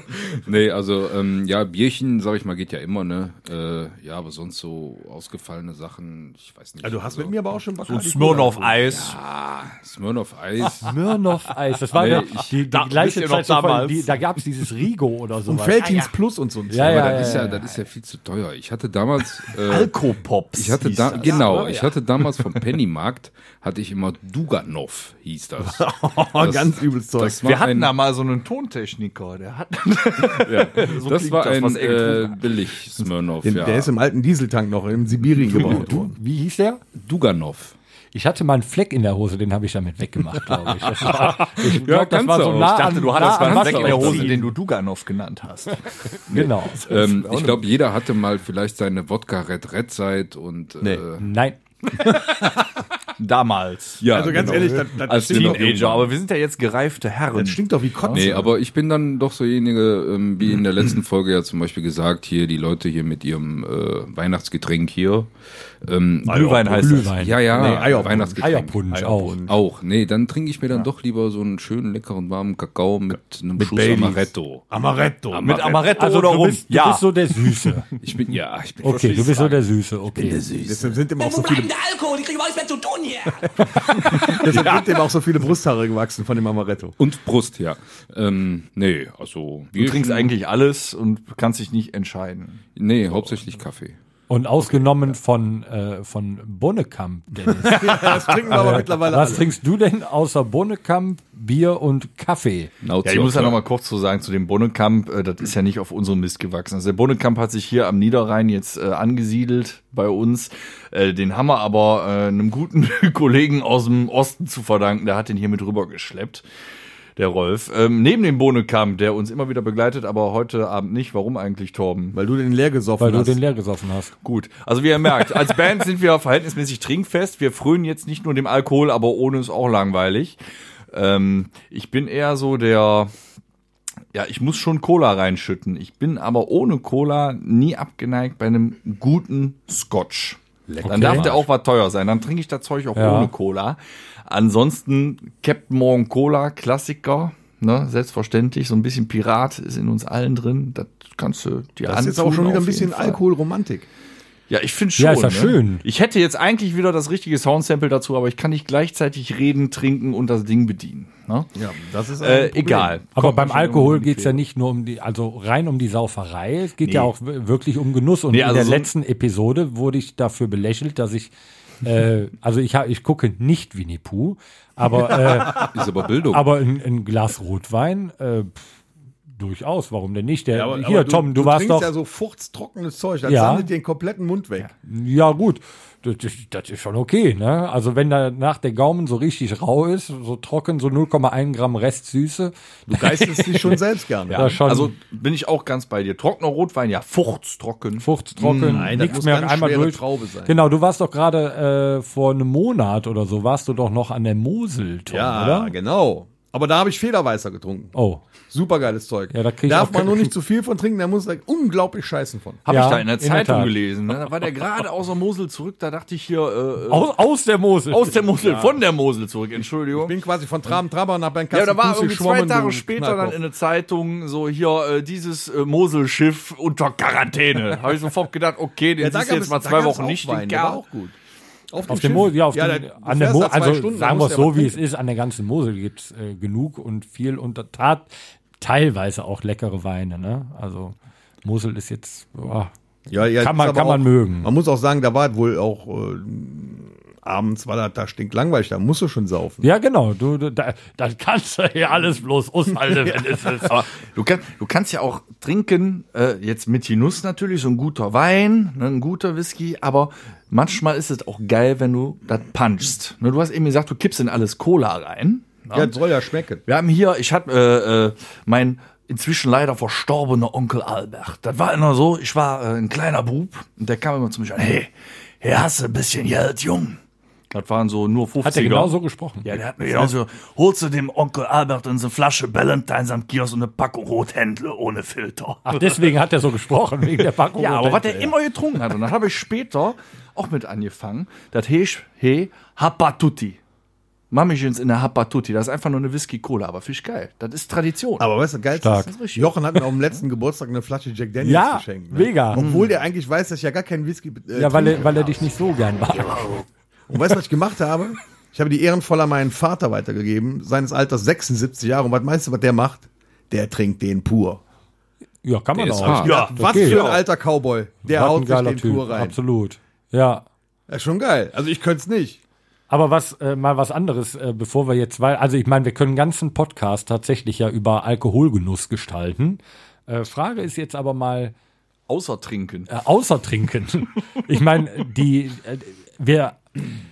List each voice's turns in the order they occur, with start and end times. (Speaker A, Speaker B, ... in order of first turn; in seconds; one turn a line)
Speaker A: 0.2-7.3
Speaker B: 6.8-9.1
Speaker C: 7.8-9.2
Speaker A: 8.9-10.9
Speaker D: 10.8-16.0
Speaker A: 11.9-12.5
Speaker C: 12.0-14.2
Speaker B: 15.5-17.6
Speaker E: 15.8-16.1
Speaker D: 16.7-17.6
Speaker A: 16.8-19.9
Speaker C: 19.5-21.5
Speaker A: 20.5-27.9
Speaker B: 21.2-21.9
Speaker B: 25.6-27.4
Speaker C: 27.4-32.8
Speaker A: 30.2-33.9
Speaker B: 33.4-36.1
Speaker A: 35.5-35.8
Speaker D: 35.5-36.8
Speaker A: 36.9-37.7
Speaker D: 38.1-44.5
Speaker A: 41.0-44.5
Speaker C: 42.6-45.9
Speaker D: 46.3-46.8
Speaker A: 46.3-51.3
Speaker C: 46.8-47.6
Speaker D: 51.2-51.6
Speaker B: 52.0-52.6
Speaker C: 53.2-58.3
Speaker A: 54.0-56.1
Speaker B: 54.1-55.9
Speaker B: 57.3-58.5
Speaker A: 58.1-74.7
Speaker C: 66.2-67.7
Speaker D: 66.8-67.6
Speaker B: 67.5-69.6
Speaker D: 68.4-69.4
Speaker B: 73.6-75.6
Speaker A: 75.3-75.9
Speaker C: 75.4-78.0
Speaker D: 76.0-77.8
Speaker A: 78.0-81.0
Speaker D: 78.8-80.4
Speaker B: 80.5-81.7
Speaker E: 81.2-83.5
Speaker B: 83.5-87.0
Speaker C: 84.4-84.8
Speaker A: 87.0-90.3
Speaker C: 89.8-92.6
Speaker A: 92.8-94.0
Speaker D: 94.3-102.7
Speaker B: 97.6-99.5
Speaker A: 102.8-103.6
Speaker C: 103.0-116.4
Speaker C: 117.2-122.2
Speaker B: 122.1-123.4
Speaker D: 123.0-124.1
Speaker C: 124.2-130.4
Speaker C: 130.9-133.1
Speaker C: 134.1-153.2
Speaker B: 140.7-141.4
Speaker D: 140.8-141.3
Speaker D: 142.9-143.3
Speaker B: 151.8-153.9
Speaker C: 154.5-161.5
Speaker D: 155.0-155.8
Speaker B: 161.6-163.0
Speaker C: 162.2-164.4
Speaker D: 163.2-171.3
Speaker C: 166.8-167.1
Speaker C: 168.3-168.9
Speaker D: 171.8-175.7
Speaker A: 175.3-176.5
Speaker D: 176.3-178.6
Speaker D: 179.3-181.9
Speaker B: 180.5-184.7
Speaker D: 183.2-183.7
Speaker D: 184.8-193.7
Speaker B: 192.9-194.6
Speaker C: 194.3-199.1
Speaker D: 194.3-194.9
Speaker D: 198.0-205.7
Speaker B: 198.6-200.6
Speaker B: 205.1-207.9
Speaker D: 207.9-208.2
Speaker B: 208.5-212.6
Speaker D: 209.3-210.3
Speaker C: 212.7-217.1
Speaker D: 212.7-213.7
Speaker D: 216.9-218.2
Speaker C: 217.9-220.1
Speaker B: 218.3-218.8
Speaker B: 219.9-223.4
Speaker C: 221.5-230.8
Speaker B: 229.0-231.1
Speaker B: 231.7-234.8
Speaker D: 231.9-238.1
Speaker D: 238.6-242.7
Speaker B: 243.1-249.7
Speaker D: 243.4-244.5
Speaker D: 249.6-253.8
Speaker C: 253.6-265.9
Speaker B: 265.7-266.6
Speaker C: 266.6-274.9
Speaker C: 275.4-277.0
Speaker C: 277.5-286.1
Speaker D: 278.4-280.1
Speaker D: 285.6-288.3
Speaker C: 287.6-293.6
Speaker C: 294.3-298.3
Speaker B: 298.2-305.5
Speaker D: 298.8-299.1
Speaker C: 298.9-299.6
Speaker D: 301.4-302.6
Speaker C: 302.5-302.9
Speaker D: 304.5-306.6
Speaker B: 307.1-314.6
Speaker D: 315.4-317.1
Speaker A: 315.8-316.4
Speaker B: 316.1-319.4
Speaker C: 316.2-317.2
Speaker D: 318.0-320.4
Speaker B: 320.9-322.4
Speaker D: 322.9-331.5
Speaker C: 332.1-332.9
Speaker D: 332.9-336.8